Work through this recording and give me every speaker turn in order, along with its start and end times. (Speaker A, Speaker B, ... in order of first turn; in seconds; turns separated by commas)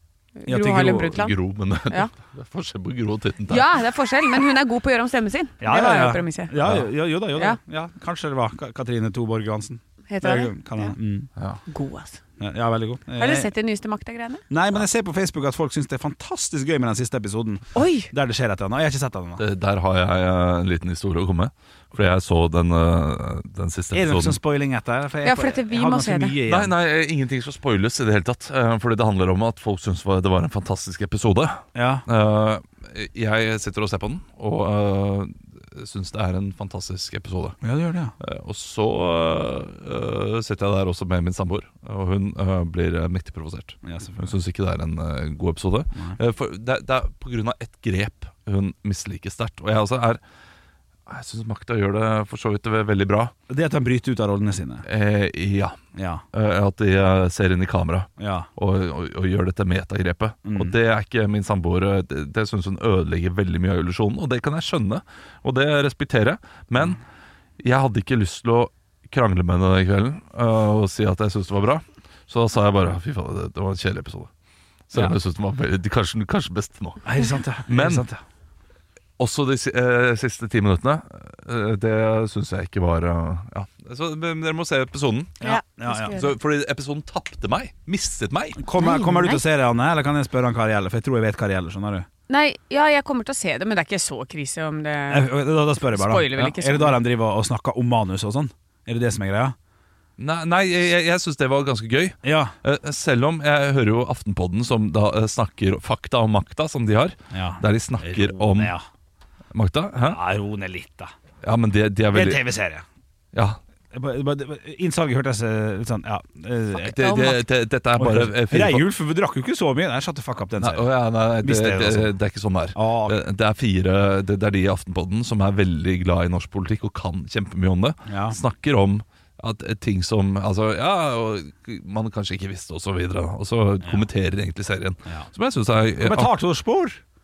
Speaker A: 0.4-1.3, Speaker B: 0.5-1.1, Speaker C: 0.9-3.6, Speaker A: 3.5-6.5, Speaker B: 5.6-11.3, Speaker A: 10.1-10.9, Speaker A: 11.7-12.2, Speaker B: 12.4-13.5, Speaker A: 13.2-14.4, Speaker B: 14.5-19.4, Speaker A: 17.7-18.1, Speaker C: 19.4-24.4, Speaker B: 23.9-26.7, Speaker A: 25.2-26.4, Speaker C: 26.4-37.6, Speaker B: 31.7-32.0, Speaker B: 37.6-38.1, Speaker C: 38.2-50.2, Speaker B: 43.8-44.3, Speaker C: 51.1-53.3, Speaker B: 53.5-54.8, Speaker C: 54.9-55.8, Speaker B: 55.9-56.2, Speaker C: 56.3-67.0, Speaker B: 58.2-58.5, Speaker B: 60.5-60.7, Speaker C: 67.6-74.3, Speaker C: 74.9-78.0, Speaker B: 77.0-78.2, Speaker C: 79.2-85.4, Speaker B: 85.4-86.1, Speaker A: 85.4-86.3, Speaker C: 86.1-88.6, Speaker B: 88.6-92.1, Speaker A: 88.8-89.4, Speaker A: 92.3-97.0, Speaker B: 95.1-99.5, Speaker C: 100.2-108.7, Speaker B: 102.2-102.5, Speaker B: 107.3-108.8, Speaker C: 109.5-110.2, Speaker B: 110.0-111.1, Speaker C: 111.4-112.4, Speaker B: 112.1-112.8, Speaker C: 113.3-113.6, Speaker B: 113.9-117.3, Speaker C: 116.8-118.8, Speaker A: 117.0-117.4, Speaker B: 118.0-120.8, Speaker C: 120.6-136.3, Speaker B: 121.4-122.1, Speaker B: 122.7-123.2, Speaker B: 128.1-128.4, Speaker B: 136.0-137.0